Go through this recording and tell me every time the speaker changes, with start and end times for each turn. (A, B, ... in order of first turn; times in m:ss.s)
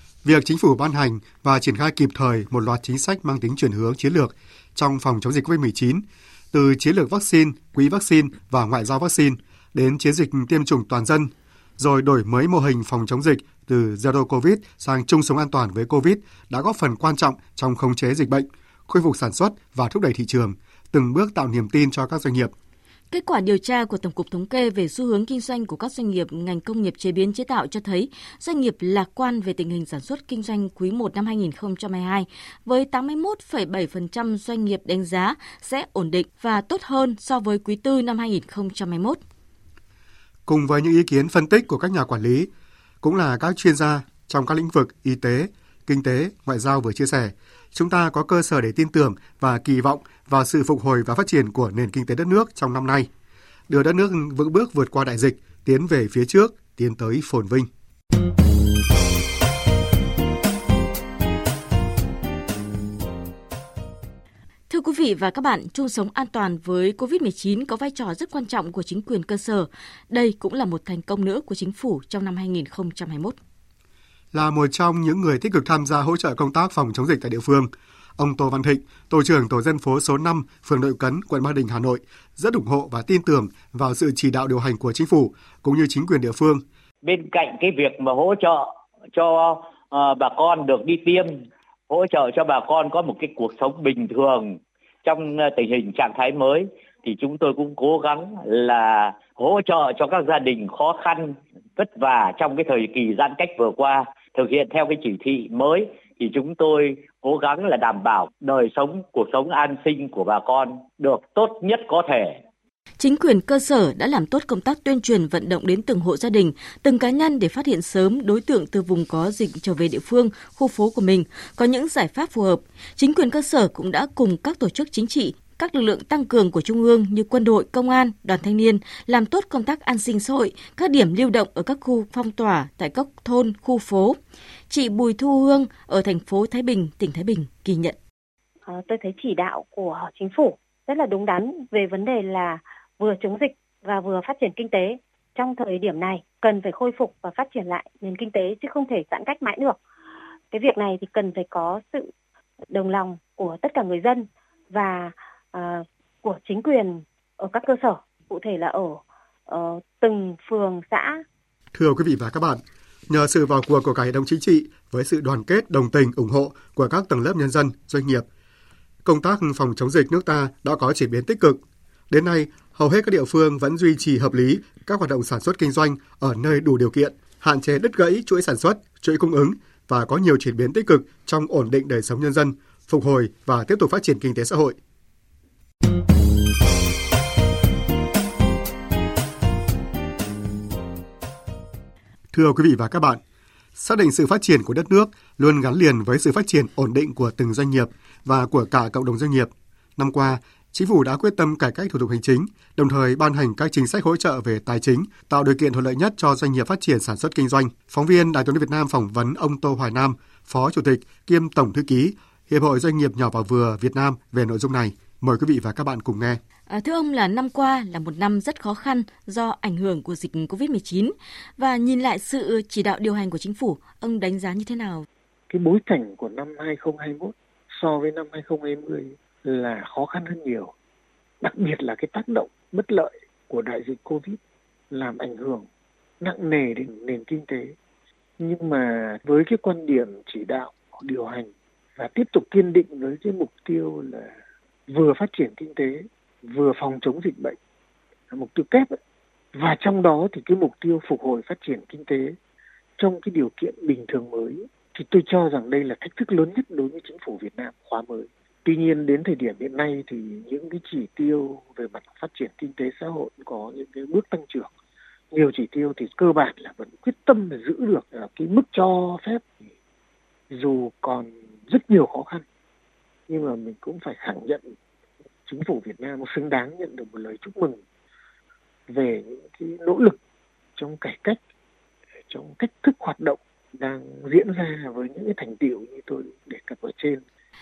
0:00.2-0:22.5 A
0:23.1-0:39.2 B
0:40.5-0:42.5 A
0:43.0-0:53.1 A
0:53.7-0:57.7 A
1:04.7-1:13.4 B
1:14.3-1:26.6 A
1:27.0-1:52.4 C
1:53.0-2:14.2 B
2:14.7-2:18.0 B
2:18.7-2:29.8 D
2:30.5-2:32.0 D
2:32.7-2:39.0 D
2:39.5-2:41.2 D
2:41.7-2:48.2 A
2:49.0-3:04.8 A
3:12.3-3:13.2 A
3:13.8-3:36.4 A
3:36.7-3:45.1 B
3:45.5-3:50.7 E
3:51.4-3:54.4 E
3:54.9-3:55.6 E
3:56.2-3:57.8 E
3:58.4-4:04.3 E
4:04.9-4:07.6 E
4:08.3-4:09.0 E
4:09.6-4:12.4 E
4:13.0-4:24.7 E
4:25.3-4:29.4 E
4:30.5-4:32.4 E
4:33.3-4:34.7 E
4:35.5-4:37.8 E
4:38.9-4:40.2 E
4:40.8-4:41.4 E
4:42.3-4:47.2 E